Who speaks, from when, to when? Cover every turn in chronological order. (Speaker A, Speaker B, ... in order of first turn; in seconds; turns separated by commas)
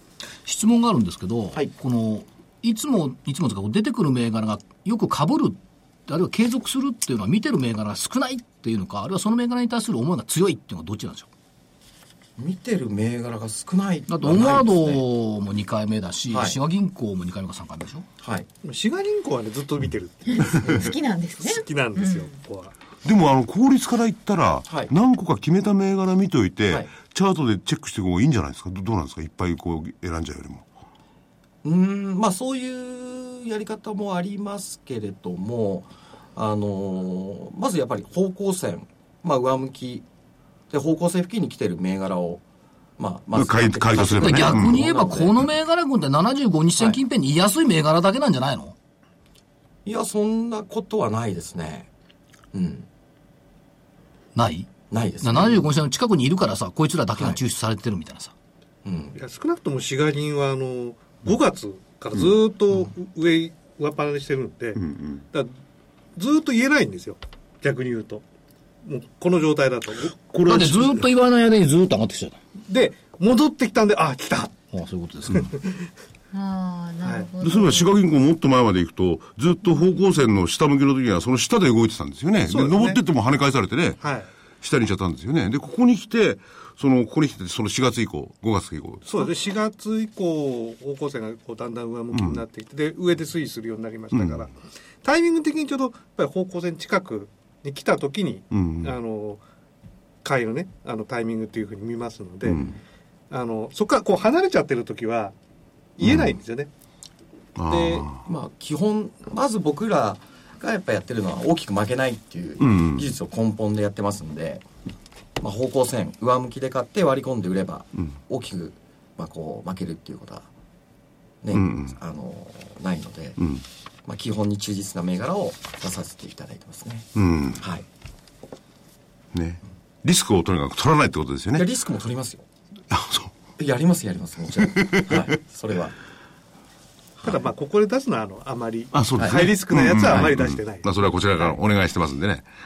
Speaker A: 0.4-11.3, Speaker B: 12.4-15.0, Speaker A: 14.1-18.1, Speaker B: 16.3-16.6, Speaker B: 18.2-18.5, Speaker C: 18.6-22.8, Speaker D: 20.3-22.3, Speaker E: 23.0-30.6, Speaker B: 24.7-24.9, Speaker B: 26.7-27.0, Speaker B: 31.6-40.0, Speaker B: 40.7-42.4, Speaker B: 43.0-45.4, Speaker E: 43.3-44.8, Speaker A: 44.1-48.7, Speaker B: 49.8-51.9, Speaker B: 52.5-52.9, Speaker A: 54.3-58.3, Speaker B: 54.9-55.7, Speaker B: 58.8-59.2, Speaker C: 59.1-65.5, Speaker E: 64.8-65.2, Speaker C: 66.2-68.2, Speaker C: 68.8-70.2, Speaker E: 70.2-71.0, Speaker A: 70.5-72.4, Speaker C: 72.7-74.5, Speaker A: 74.7-75.5, Speaker C: 75.4-75.7, Speaker D: 76.3-77.9, Speaker C: 77.0-77.3, Speaker E: 77.4-84.0, Speaker C: 82.5-83.0, Speaker C: 84.0-84.3, Speaker E: 84.6-89.2, Speaker C: 89.0-94.5, Speaker E: 92.1-92.4, Speaker E: 94.1-94.4, Speaker C: 95.0-99.4, Speaker E: 98.5-98.9, Speaker C: 100.2-102.7, Speaker C: 103.3-105.3, Speaker C: 106.0-106.7, Speaker E: 106.0-106.3, Speaker E: 107.5-108.2, Speaker C: 107.7-108.1, Speaker B: 108.2-114.6, Speaker E: 112.6-113.1, Speaker B: 115.4-120.5, Speaker B: 121.4-123.4, Speaker E: 121.5-122.0, Speaker E: 123.4-123.6, Speaker B: 124.0-127.8, Speaker E: 127.2-127.6, Speaker E: 129.3-131.7, Speaker B: 131.5-132.4, Speaker E: 132.9-133.3, Speaker B: 133.6-135.9, Speaker E: 134.7-135.4, Speaker C: 137.2-140.9, Speaker E: 138.9-142.4, Speaker B: 139.2-139.4